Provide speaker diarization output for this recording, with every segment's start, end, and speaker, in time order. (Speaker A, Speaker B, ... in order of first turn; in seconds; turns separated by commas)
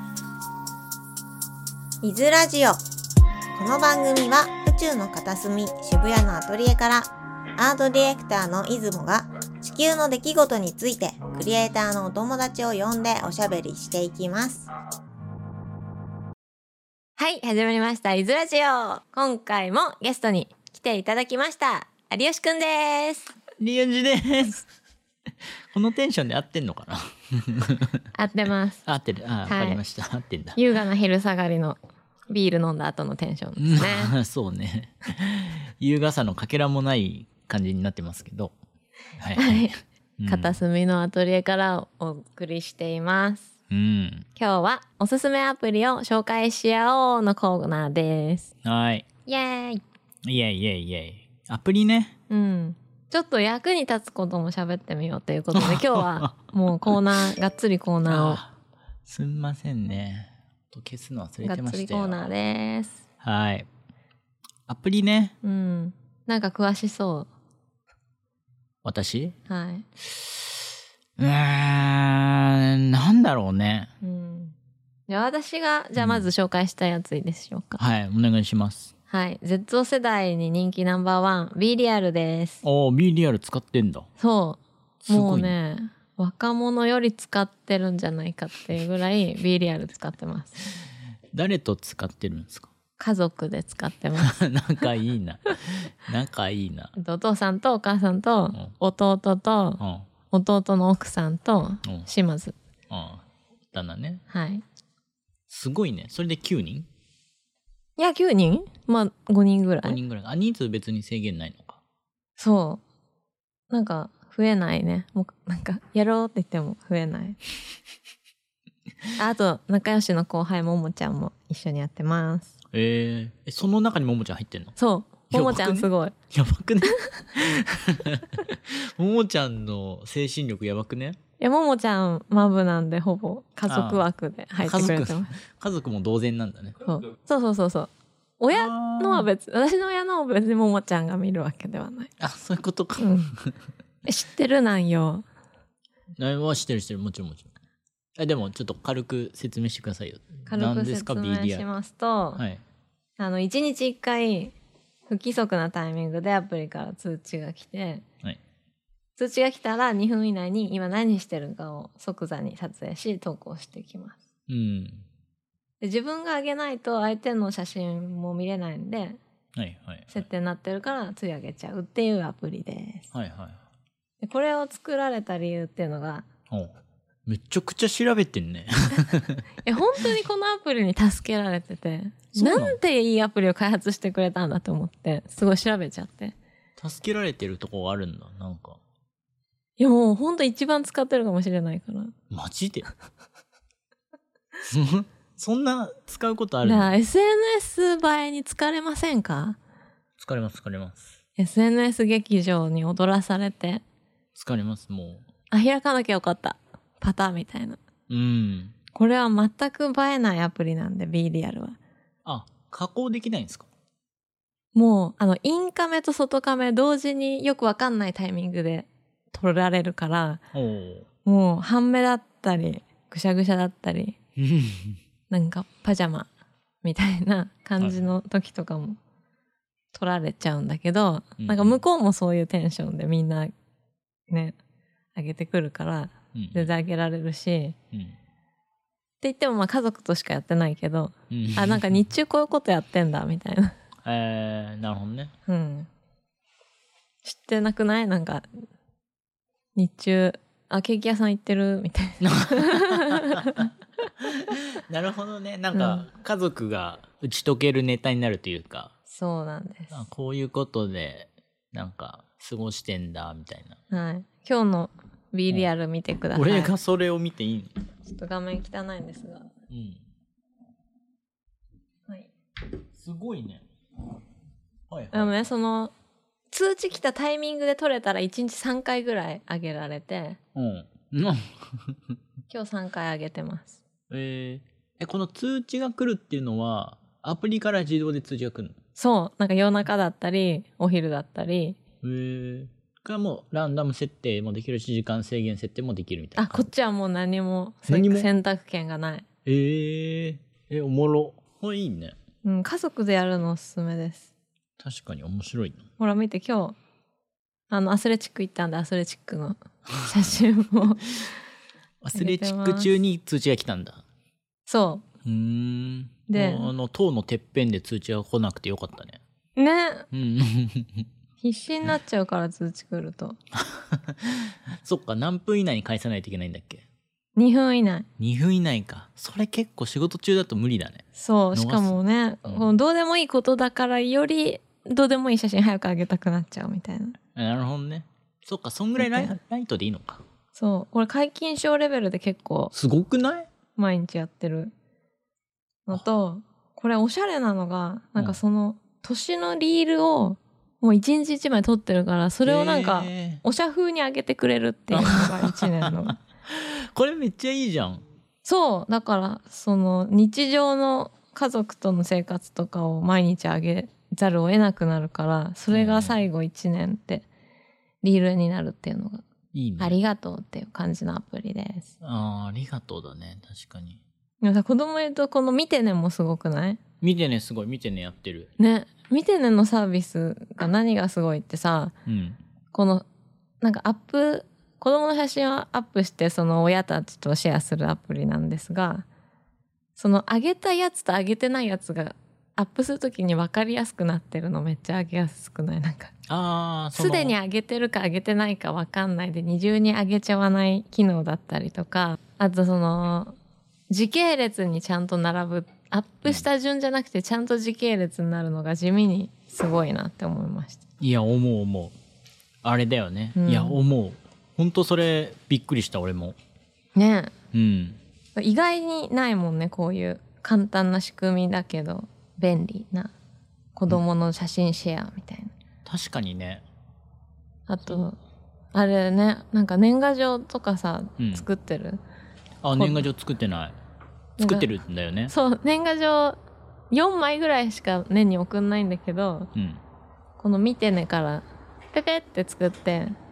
Speaker A: 2.0-2.8, Speaker A: 3.5-14.7, Speaker B: 17.2-23.3, Speaker C: 23.6-24.7, Speaker C: 25.4-28.1, Speaker B: 28.1-28.8, Speaker C: 28.9-30.6, Speaker B: 29.4-29.8, Speaker B: 30.5-31.8, Speaker B: 32.3-34.1, Speaker C: 33.6-38.5, Speaker C: 39.2-40.6, Speaker B: 39.4-43.5, Speaker C: 43.7-44.3, Speaker B: 44.4-48.5, Speaker C: 48.6-49.0, Speaker B: 49.2-49.8, Speaker C: 50.2-52.1, Speaker B: 52.3-58.4, Speaker C: 55.5-56.4, Speaker C: 58.0-62.3, Speaker B: 61.4-63.0, Speaker C: 63.2-63.7, Speaker C: 64.7-65.3, Speaker B: 65.4-67.3, Speaker C: 68.8-69.3, Speaker B: 69.5-69.8, Speaker C: 70.0-73.9, Speaker B: 74.0-74.5, Speaker B: 75.1-77.8, Speaker C: 76.0-76.3, Speaker C: 77.8-78.9, Speaker B: 79.1-82.6, Speaker C: 82.6-84.1, Speaker B: 84.2-90.7, Speaker C: 85.0-85.5, Speaker C: 91.3-92.7, Speaker B: 93.0-94.3, Speaker C: 94.2-96.9, Speaker B: 97.0-99.8, Speaker C: 99.8-100.1, Speaker B: 100.3-102.5, Speaker C: 102.9-104.2, Speaker B: 104.3-104.6, Speaker C: 105.5-106.9, Speaker B: 108.0-110.0, Speaker C: 109.8-111.8, Speaker B: 112.4-112.8, Speaker B: 113.7-117.4, Speaker B: 119.2-122.5, Speaker C: 122.7-124.7, Speaker B: 124.8-126.1, Speaker C: 125.3-131.2, Speaker B: 126.8-127.1, Speaker B: 131.4-135.3, Speaker C: 133.7-134.0, Speaker C: 134.6-136.8, Speaker B: 136.8-142.1, Speaker C: 138.5-139.3, Speaker C: 142.2-143.6, Speaker B: 143.0-143.3, Speaker B: 144.0-145.2, Speaker C: 146.2-147.5, Speaker C: 148.2-151.7, Speaker B: 150.4-152.4, Speaker C: 152.3-152.6, Speaker B: 153.2-154.5, Speaker B: 155.1-158.0, Speaker B: 159.2-164.2, Speaker C: 164.5-165.0, Speaker B: 165.8-169.2, Speaker C: 169.5-170.2, Speaker B: 170.1-173.1, Speaker C: 173.1-173.6, Speaker B: 174.2-176.2, Speaker C: 176.5-179.4, Speaker B: 179.6-186.3, Speaker C: 182.3-182.8, Speaker C: 186.8-188.8, Speaker B: 189.8-192.1, Speaker C: 192.3-192.9, Speaker C: 194.7-196.9, Speaker B: 196.6-199.6, Speaker C: 200.2-201.0, Speaker B: 201.4-203.8, Speaker C: 204.3-205.2, Speaker B: 205.5-207.8, Speaker C: 208.1-208.7, Speaker B: 208.9-211.8, Speaker C: 212.2-213.7, Speaker B: 214.7-220.4, Speaker C: 220.5-221.1, Speaker B: 221.2-224.2, Speaker C: 224.4-225.0, Speaker B: 225.3-226.3, Speaker B: 226.8-229.0, Speaker B: 229.9-233.5, Speaker C: 231.4-231.8, Speaker B: 234.3-234.6, Speaker B: 235.1-237.8, Speaker C: 236.3-236.7, Speaker B: 239.2-243.8, Speaker C: 241.3-241.9, Speaker C: 244.0-245.3, Speaker B: 245.4-245.9, Speaker B: 247.2-248.6, Speaker B: 249.7-253.6, Speaker C: 252.2-258.9, Speaker B: 255.7-256.1, Speaker B: 259.1-260.0, Speaker C: 259.9-263.8, Speaker B: 263.9-266.7, Speaker C: 266.3-267.7, Speaker B: 268.0-269.5, Speaker C: 269.7-270.0, Speaker C: 272.9-273.6, Speaker C: 274.9-275.4, Speaker B: 275.1-275.9, Speaker B: 276.5-280.4, Speaker C: 280.5-282.1, Speaker B: 282.5-283.8, Speaker C: 284.1-288.8, Speaker B: 288.9-291.8, Speaker C: 292.0-296.7, Speaker B: 296.4-299.2, Speaker C: 297.9-298.3, Speaker C: 299.4-302.1, Speaker B: 302.4-304.3, Speaker C: 304.8-305.8, Speaker B: 306.0-306.8, Speaker B: 307.7-311.3, Speaker C: 312.0-314.0, Speaker B: 312.1-312.9, Speaker B: 314.7-315.0, Speaker C: 315.2-319.2, Speaker B: 316.3-316.7, Speaker B: 319.6-320.1, Speaker C: 320.1-321.1, Speaker B: 321.4-323.4, Speaker C: 323.5-326.8, Speaker B: 327.4-328.1, Speaker C: 328.2-332.7, Speaker B: 331.1-337.2, Speaker C: 337.3-340.2, Speaker B: 339.0-339.4, Speaker B: 340.5-342.7, Speaker C: 342.7-343.5, Speaker B: 343.8-344.7, Speaker B: 345.9-356.2, Speaker C: 352.4-353.4, Speaker C: 354.9-358.0, Speaker B: 358.4-367.2, Speaker C: 365.7-366.2, Speaker B: 368.0-369.2, Speaker C: 369.5-370.0, Speaker B: 369.8-371.9, Speaker C: 372.0-374.0, Speaker B: 374.4-376.8, Speaker C: 377.0-378.5, Speaker B: 378.6-381.9, Speaker C: 382.1-382.4, Speaker B: 382.7-383.1, Speaker B: 383.6-389.0, Speaker B: 390.0-396.1, Speaker C: 396.2-397.4, Speaker B: 396.9-403.3, Speaker B: 403.9-410.8, Speaker C: 411.0-411.9, Speaker C: 412.6-416.4, Speaker B: 413.4-413.8, Speaker B: 416.9-417.3, Speaker C: 417.5-418.0, Speaker B: 418.4-423.1, Speaker B: 423.7-425.5, Speaker C: 425.8-426.6, Speaker B: 427.7-428.2, Speaker B: 428.7-432.0, Speaker C: 431.2-431.5, Speaker C: 432.6-433.8, Speaker B: 432.7-433.1, Speaker B: 434.4-434.7, Speaker C: 434.4-435.3, Speaker B: 435.3-436.4, Speaker B: 436.9-439.5, Speaker C: 439.5-439.8, Speaker B: 440.4-443.2